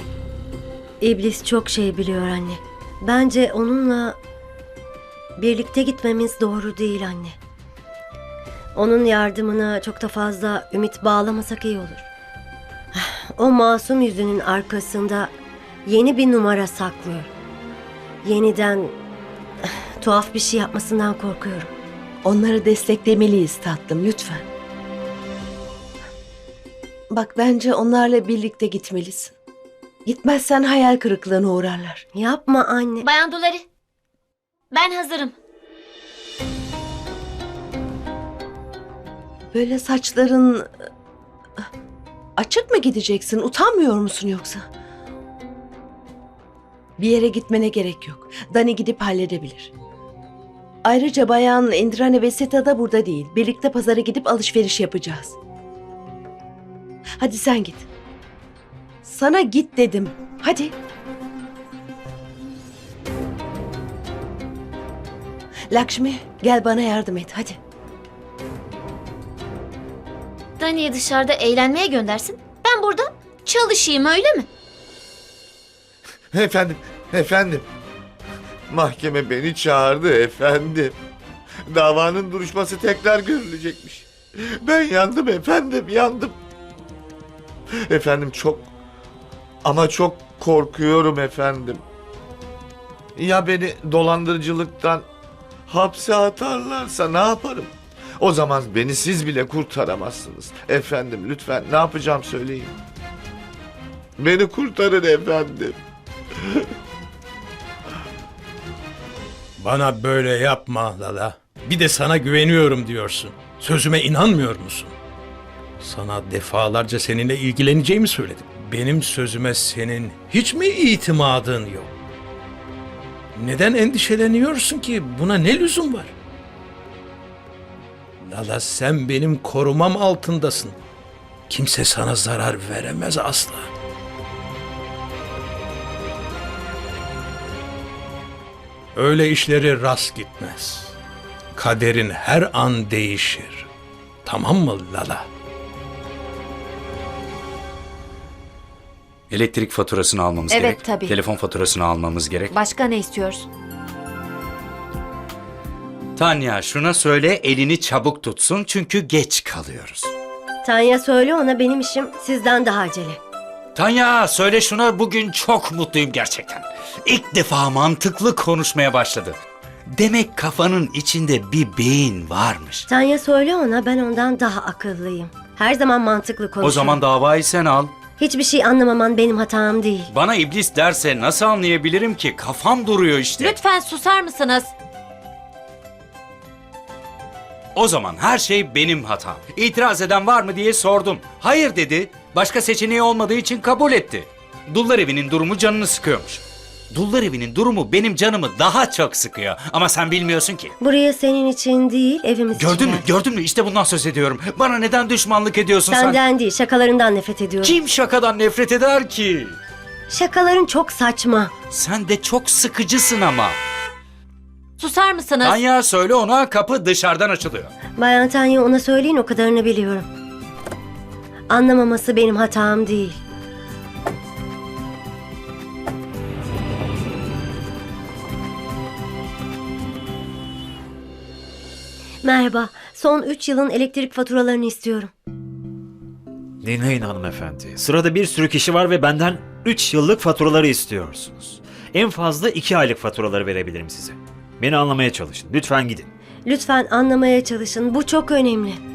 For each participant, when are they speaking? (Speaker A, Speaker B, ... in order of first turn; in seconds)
Speaker A: 1.0-4.2, 5.4-7.3, 8.7-12.1, 12.9-15.3, 15.8-17.3, 18.2-18.9, 19.6-21.7, 32.1-33.0, 160.6-163.2, 172.9-177.0, 178.2-180.1, 200.8-203.1, 205.9-207.7, 210.1-211.5, 218.0-220.1, 221.5-223.2, 232.2-235.1, 246.4-248.8
Speaker B: 22.2-24.4, 27.1-29.3, 30.1-32.0, 39.5-40.7, 42.4-44.6, 47.0-49.7, 50.8-55.4, 57.2-57.9, 59.0-60.7, 65.7-67.6
Speaker C: 33.0-33.6, 34.7-35.3, 70.6-74.5
Speaker D: 76.3-77.6, 78.7-81.0, 81.7-86.4, 87.8-88.7, 89.6-91.8, 93.2-95.0, 95.7-102.7, 104.2-105.8
Speaker E: 109.6-114.9, 115.8-121.9, 123.3-126.1, 128.2-130.8, 131.5-133.7, 138.9-140.9, 141.6-143.7, 144.2-145.2
Speaker F: 149.3-152.5, 156.2-160.1, 163.7-169.4, 169.9-172.9, 176.6-177.9, 180.1-183.6, 187.7-200.7, 202.5-206.2, 207.6-209.6, 211.7-213.6, 215.4-217.7
Speaker G: 152.6-153.4, 183.6-184.7, 214.9-215.3
Speaker H: 183.4-184.5, 214.8-215.5, 236.6-246.1